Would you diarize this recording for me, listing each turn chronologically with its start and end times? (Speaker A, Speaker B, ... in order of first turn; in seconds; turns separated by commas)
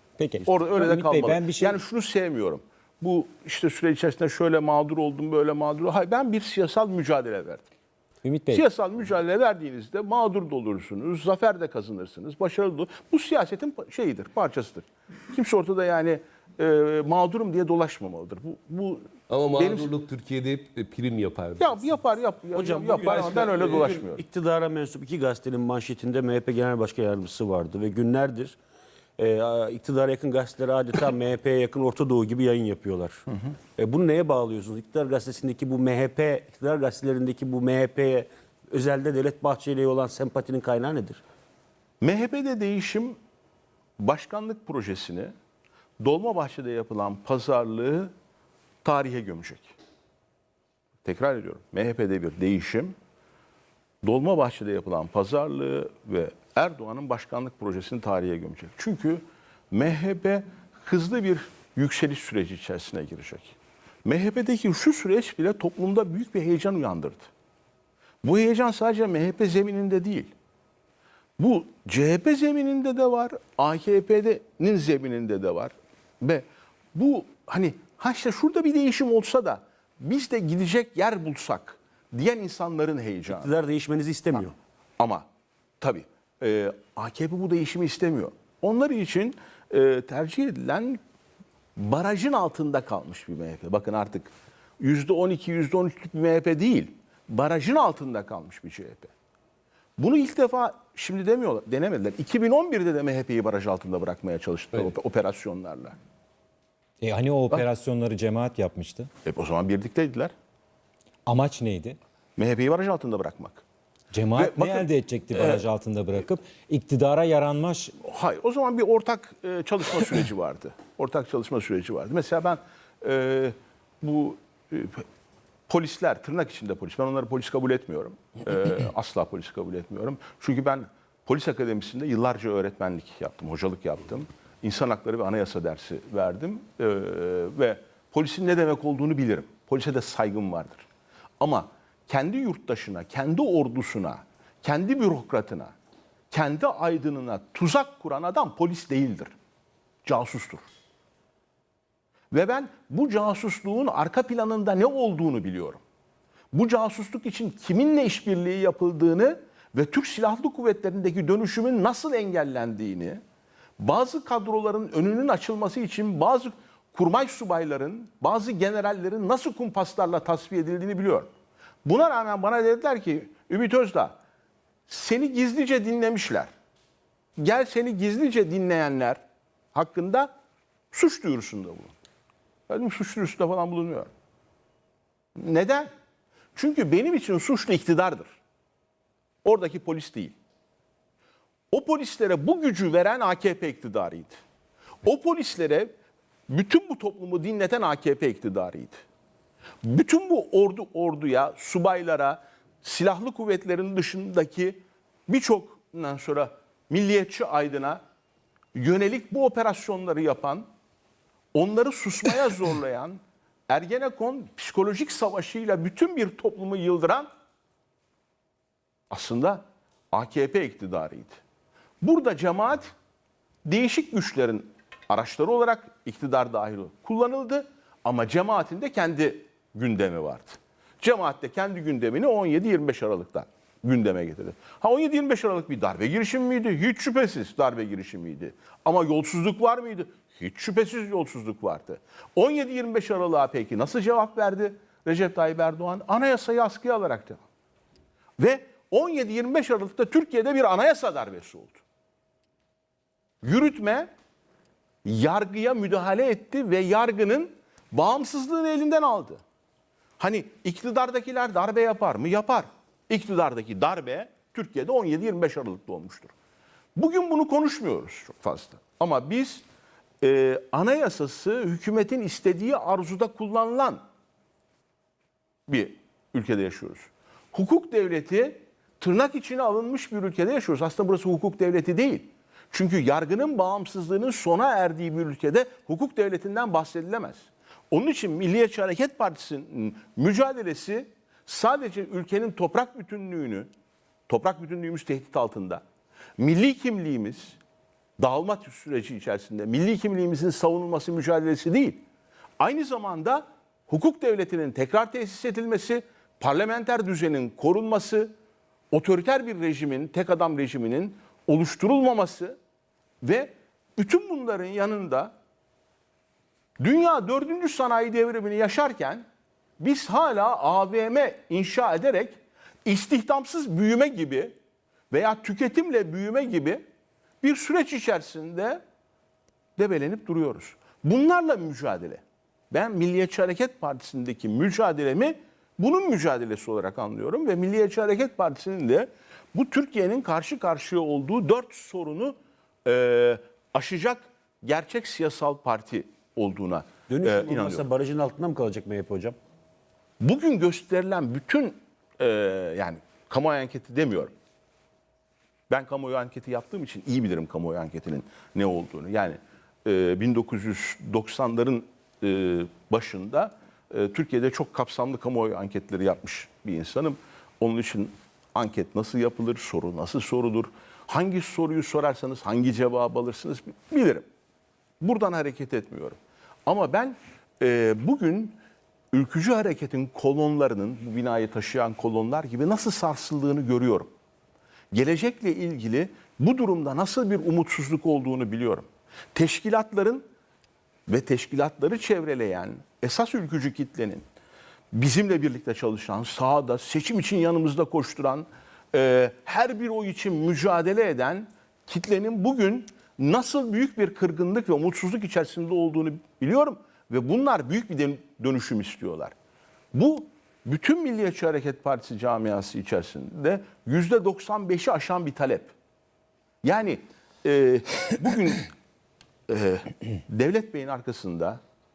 Speaker A: 0.2-1.8, Speaker B: 0.4-7.7, Speaker A: 8.2-8.6, Speaker B: 8.5-19.9, Speaker C: 19.3-21.8, Speaker B: 21.6-24.2, Speaker D: 22.5-28.6, Speaker D: 29.2-41.2, Speaker B: 42.0-43.2, Speaker B: 44.0-45.3, Speaker B: 46.0-48.1, Speaker B: 48.8-49.7, Speaker B: 51.0-52.9, Speaker B: 54.0-67.3, Speaker B: 68.2-70.3, Speaker B: 71.4-83.5, Speaker D: 83.3-84.5, Speaker B: 85.0-85.3, Speaker B: 85.8-91.0, Speaker B: 91.8-99.1, Speaker B: 100.0-106.0, Speaker A: 107.0-109.1, Speaker B: 109.2-110.3, Speaker A: 111.3-112.0, Speaker B: 112.4-113.6, Speaker A: 114.1-118.0, Speaker B: 114.3-115.6, Speaker B: 118.0-125.0, Speaker B: 125.7-140.8, Speaker B: 141.4-145.7, Speaker B: 146.3-149.3, Speaker B: 150.0-150.6, Speaker B: 152.3-155.8, Speaker B: 156.5-163.2, Speaker B: 163.8-171.3, Speaker B: 171.8-174.2, Speaker B: 174.9-176.5, Speaker B: 177.4-179.2, Speaker B: 179.7-180.3, Speaker B: 180.9-181.9, Speaker B: 182.7-184.1, Speaker B: 185.4-185.9, Speaker B: 186.6-188.4, Speaker B: 189.4-190.3, Speaker B: 191.7-194.4, Speaker B: 195.0-195.9, Speaker B: 196.5-199.0, Speaker B: 199.8-208.0, Speaker B: 208.8-210.7, Speaker B: 211.5-217.3, Speaker B: 219.1-221.4, Speaker B: 222.0-222.9, Speaker B: 223.7-247.4, Speaker B: 248.4-251.8, Speaker B: 253.4-254.1, Speaker B: 255.1-259.4, Speaker B: 260.2-266.3, Speaker B: 267.0-269.6, Speaker B: 270.2-274.0, Speaker B: 275.7-293.7, Speaker B: 294.3-295.8, Speaker B: 296.4-297.6, Speaker B: 298.2-302.0, Speaker B: 302.6-308.3, Speaker B: 308.9-312.6, Speaker B: 313.2-315.3, Speaker B: 316.8-319.2, Speaker B: 319.8-324.6, Speaker B: 325.1-326.8, Speaker B: 327.4-328.8, Speaker B: 329.8-347.9, Speaker D: 347.1-349.4, Speaker B: 350.2-354.3, Speaker B: 355.7-374.2, Speaker B: 375.0-378.6, Speaker B: 379.1-384.1, Speaker B: 384.9-390.3, Speaker B: 391.1-394.2, Speaker B: 394.9-409.3, Speaker B: 409.9-415.7, Speaker B: 416.6-418.7, Speaker B: 419.5-421.6